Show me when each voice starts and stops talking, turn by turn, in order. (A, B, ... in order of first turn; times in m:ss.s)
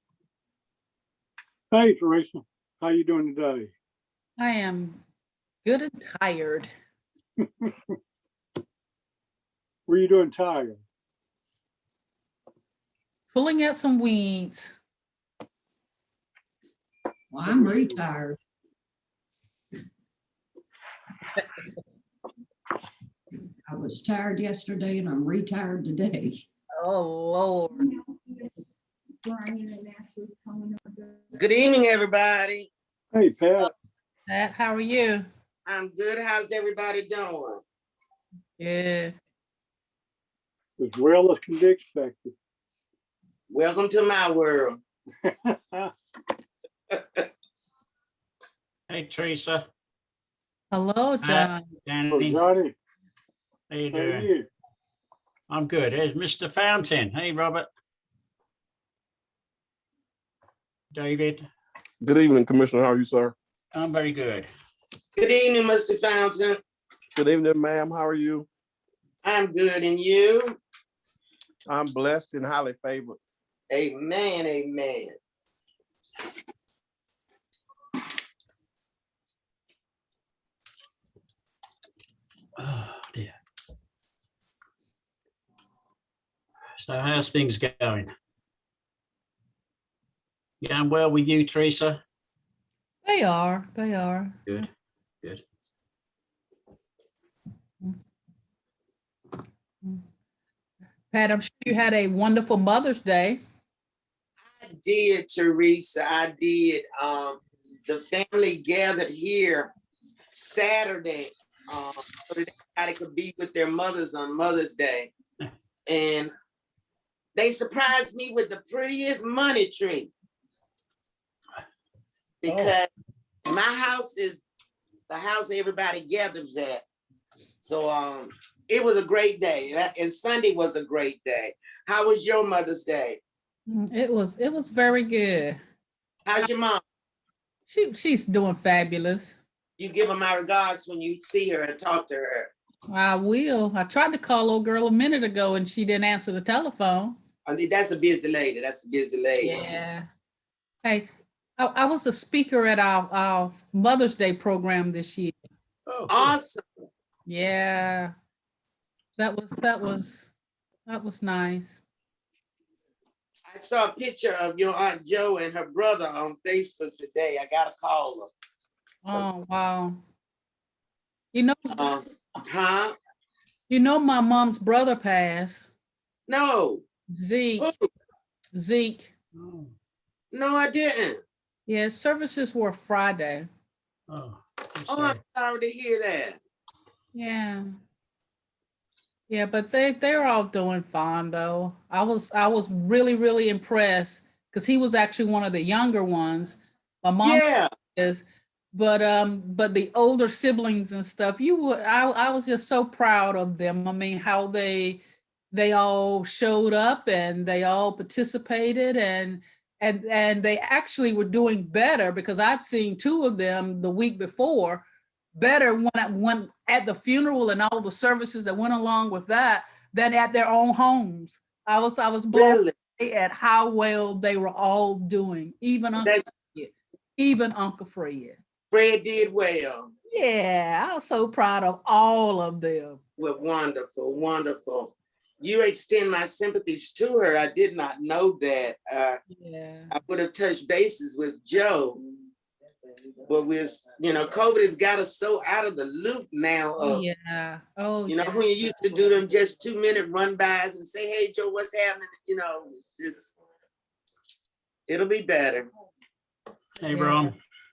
0:01.7-0:03.7 A
0:04.4-0:05.0 B
0:05.6-0:06.7 B
0:07.4-0:08.0 A
0:09.9-0:10.8 A
0:13.3-0:14.7 B
0:17.3-0:18.4 C
0:17.4-0:18.0 A
0:23.6-0:26.4 C
0:26.8-0:27.9 B
0:27.8-0:28.5 D
0:29.2-0:31.2 D
0:31.3-0:32.7 E
0:33.1-0:33.7 A
0:34.3-0:35.2 B
0:35.6-0:37.6 E
0:38.6-0:39.1 B
0:40.8-0:42.3 A
0:43.5-0:44.8 E
0:45.2-0:45.9 A
0:46.9-0:47.2 E
0:48.9-0:49.6 F
0:50.7-0:51.7 B
0:51.2-0:52.4 F
0:52.1-0:52.7 A
0:53.7-0:54.3 F
0:53.9-0:54.5 A
0:55.5-0:57.7 F
1:00.9-1:01.5 F
1:02.0-1:03.3 G
1:03.7-1:04.5 F
1:05.2-1:06.6 E
1:07.2-1:08.5 G
1:09.2-1:10.6 E
1:11.7-1:13.2 G
1:13.7-1:15.2 E
1:22.6-1:23.3 F
1:26.8-1:28.1 F
1:30.6-1:32.0 F
1:33.0-1:34.4 B
1:41.1-1:43.4 B
1:44.5-1:49.7 E
1:50.3-1:55.1 E
1:55.9-1:56.3 E
1:57.4-2:00.1 E
2:02.4-2:02.9 E
2:02.5-2:02.7 F
2:03.5-2:04.4 E
2:05.1-2:06.8 E
2:07.6-2:13.2 E
2:13.7-2:15.6 B
2:16.2-2:16.8 E
2:17.6-2:19.4 B
2:19.8-2:22.5 E
2:22.9-2:27.2 B
2:27.4-2:29.7 E
2:29.4-2:30.1 B
2:31.6-2:35.3 B
2:35.9-2:36.3 F
2:36.1-2:36.6 E
2:37.2-2:38.1 B
2:39.2-2:40.3 B
2:40.9-2:41.8 B
2:43.5-2:48.3 E
2:49.0-2:50.0 B
2:51.3-2:51.9 B
2:51.7-2:52.9 E
2:53.7-2:55.7 B
2:56.3-2:56.8 E
2:57.1-2:57.7 B
2:57.6-2:57.9 E
2:58.5-2:59.1 B
2:59.3-2:59.7 F
3:00.3-3:01.2 E
3:01.7-3:03.5 B
3:04.1-3:05.2 F
3:04.9-3:06.4 E
3:07.1-3:07.6 B
3:09.3-3:25.0 B
3:17.2-3:17.7 E
3:25.5-3:48.4 B
3:42.3-3:42.7 E
3:46.0-3:46.3 E
3:48.7-3:49.9 E
3:50.1-3:53.0 B
3:53.2-3:59.2 E
3:59.3-3:59.9 B
3:59.9-4:02.0 E
4:03.2-4:07.0 E
4:06.8-4:09.0 B
4:08.1-4:13.4 E
4:14.9-4:15.7 E
4:16.8-4:17.4 F
4:16.9-4:17.3 B